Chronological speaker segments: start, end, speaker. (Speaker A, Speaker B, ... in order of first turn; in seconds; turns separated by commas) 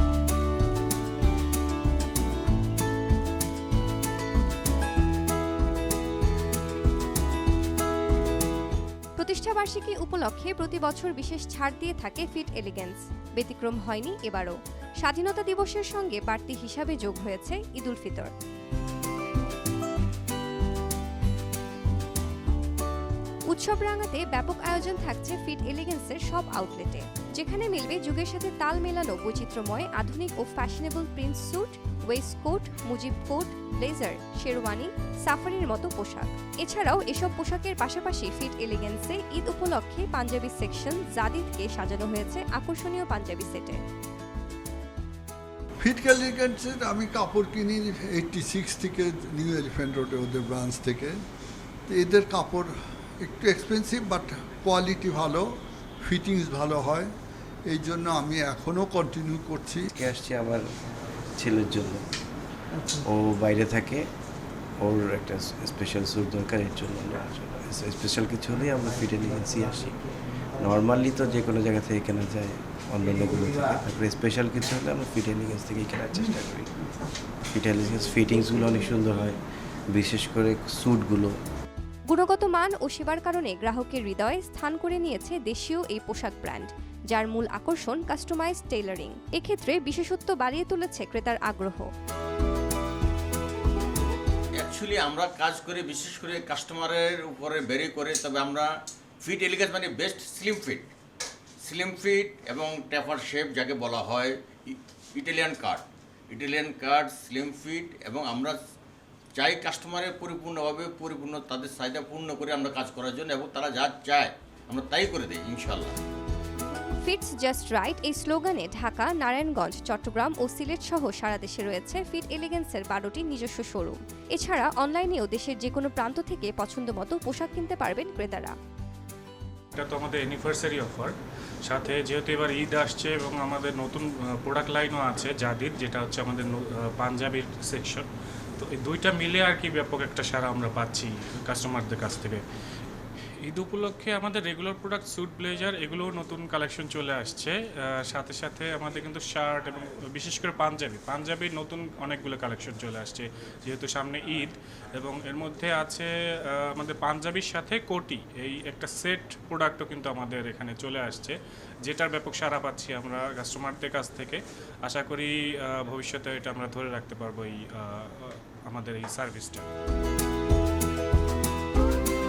Speaker A: 9.2-18.3, Speaker A: 23.5-43.8, Speaker B: 45.8-51.2, Speaker B: 51.9-57.1, Speaker B: 57.7-59.9, Speaker C: 59.9-60.6, Speaker C: 61.3-62.0, Speaker C: 63.0-64.1, Speaker C: 64.8-76.9, Speaker C: 77.5-79.4, Speaker C: 79.9-81.3, Speaker A: 82.1-91.9, Speaker D: 94.6-98.7, Speaker D: 99.2-100.9, Speaker D: 101.7-108.6, Speaker D: 109.3-116.0, Speaker A: 117.0-128.6, Speaker E: 129.8-138.1, Speaker E: 138.6-142.4, Speaker E: 143.4-169.7